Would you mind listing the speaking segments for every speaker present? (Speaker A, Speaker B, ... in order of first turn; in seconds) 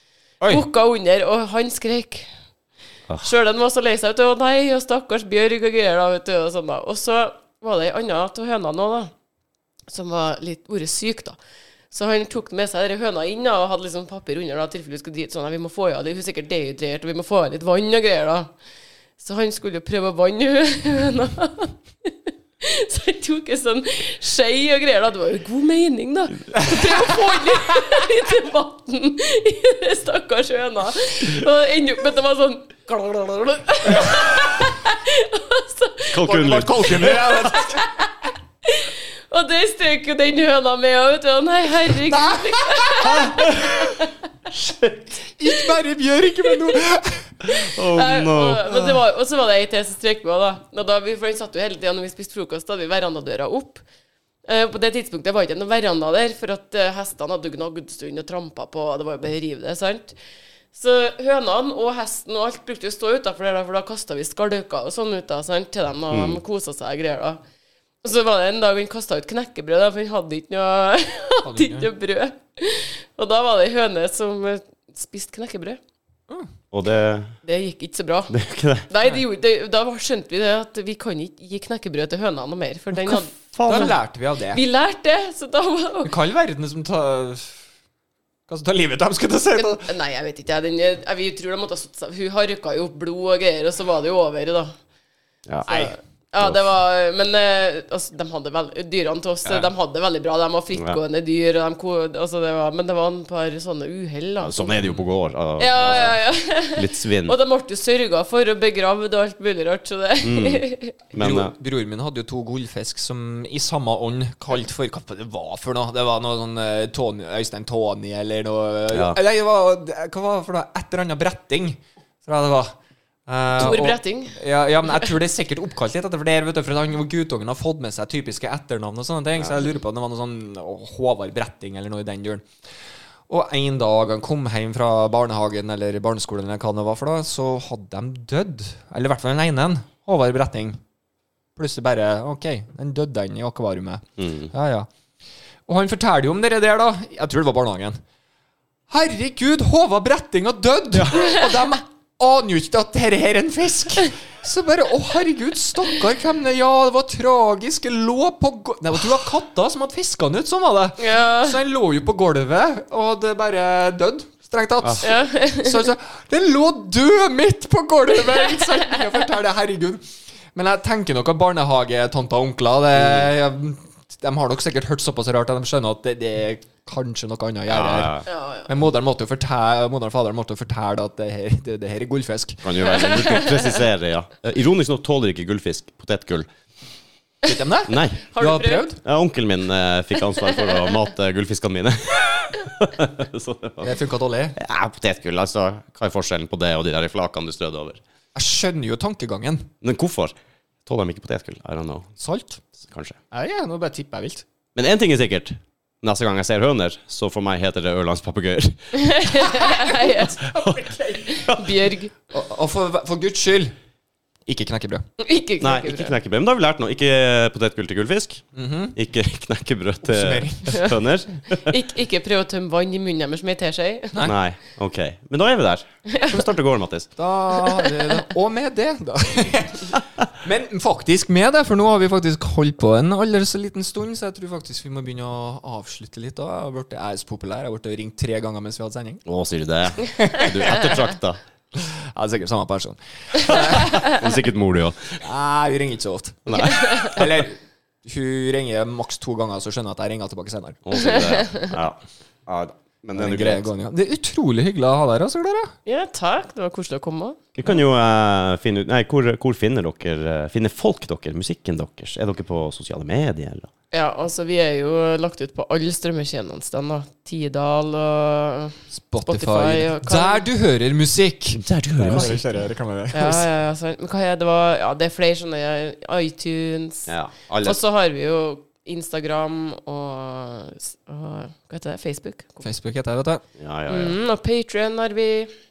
Speaker A: 0.4-0.7, 26.5-27.8, 36.2-37.8, 42.1-43.8, 45.4-47.3, 48.7-49.0, 71.4-71.9, 83.6-84.6, 86.0-87.5, 88.5-89.9, 95.7-95.9, 111.2-122.7, 123.3-132.4, 133.3-140.8, 141.6-144.9, 145.7-148.0, 148.9-170.0, 170.5-183.0, 187.4-189.0, 193.8-194.6, 198.3-199.7, 202.2-202.6, 203.3-204.4, 209.4-211.4, 212.3-213.7, 214.5-215.0, 218.5-218.9, 220.0-220.8, 227.2-239.2, 240.1-240.8, 241.7-244.1, 245.2-250.8, 253.1-255.7, 268.9-273.5, 282.6-283.4
Speaker B: 0.5-2.3, 3.2-9.1, 9.9-11.4, 11.9-18.5, 19.2-36.3, 37.5-38.1, 38.6-44.1, 47.9-53.8, 54.4-60.1, 60.7-67.4, 68.0-75.8, 77.4-78.4, 78.9-84.0, 84.5-86.1, 89.5-94.7, 95.7-104.9, 105.6-110.9, 123.6-124.3, 151.1-151.5, 161.0-161.6, 165.0-165.8, 178.3-178.7, 183.0-183.6, 188.3-188.8, 208.9-210.4, 211.2-212.1, 215.2-216.1, 220.7-220.9, 221.5-224.2, 226.1-226.5, 227.5-228.2, 251.0-251.7, 255.8-257.4, 263.9-270.4, 273.1-277.1, 277.6-282.6, 283.9-285.5
Speaker C: 36.1-37.6, 43.1-43.8, 44.5-45.2, 47.4-48.7, 66.1-66.4, 76.7-77.3, 78.3-78.9, 83.5-83.9, 95.5-95.9, 104.4-106.2, 106.7-107.4, 110.2-111.5, 118.9-119.2, 144.2-144.5, 172.9-173.3, 177.7-178.2, 182.6-186.5, 187.9-188.2, 189.0-193.9, 194.5-198.0, 199.8-200.3, 200.8-202.1, 202.8-203.2, 204.7-209.3, 210.5-210.9, 211.4-211.7, 215.6-221.8, 224.2-227.1, 239.2-241.4, 243.5-245.2, 246.5-247.2, 250.8-253.7, 257.6-263.7, 271.5-272.5, 277.1-277.8, 283.6-284.2